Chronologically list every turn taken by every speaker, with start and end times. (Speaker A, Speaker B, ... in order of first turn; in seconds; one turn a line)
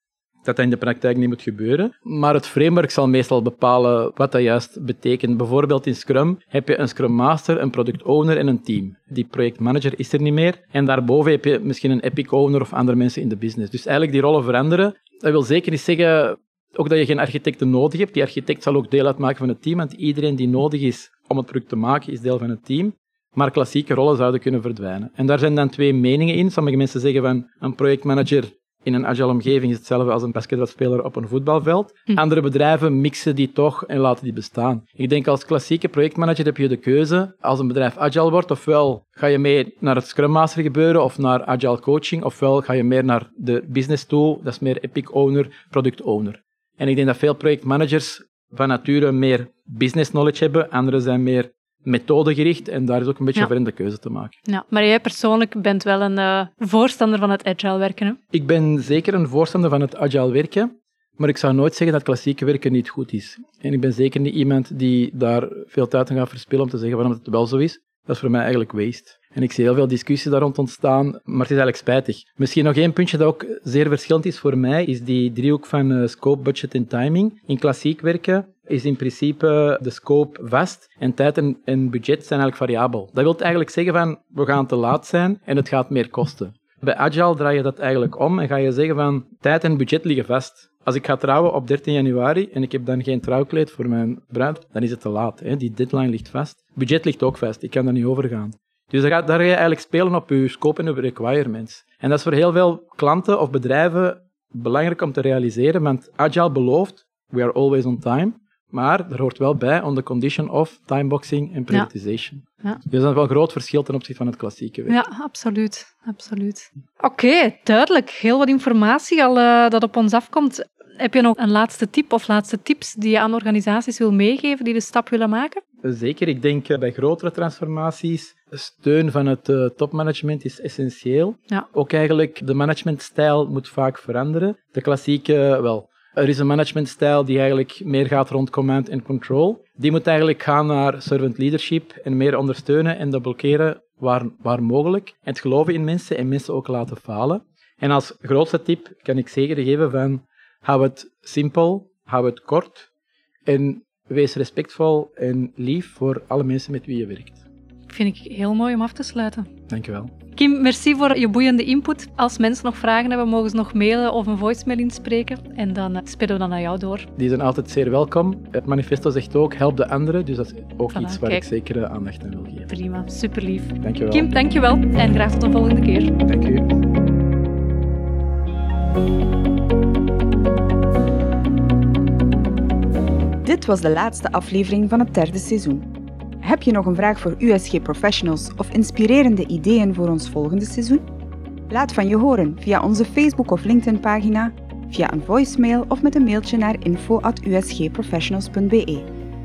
Speaker A: 0.5-54.4
Speaker B: 54.5-58.2
Speaker A: 58.3-115.0
Speaker B: 114.9-125.6
Speaker A: 125.8-152.9
Speaker A: 153.5-157.4
Speaker B: 157.9-159.5
Speaker A: 159.7-160.1
Speaker B: 160.3-167.1
Speaker A: 167.2-172.7
Speaker B: 170.9-171.4
Speaker B: 172.7-176.2
Speaker A: 173.8-174.3
Speaker A: 176.2-176.7
Speaker C: 183.4-185.9
Speaker C: 186.4-191.0
Speaker C: 191.7-199.1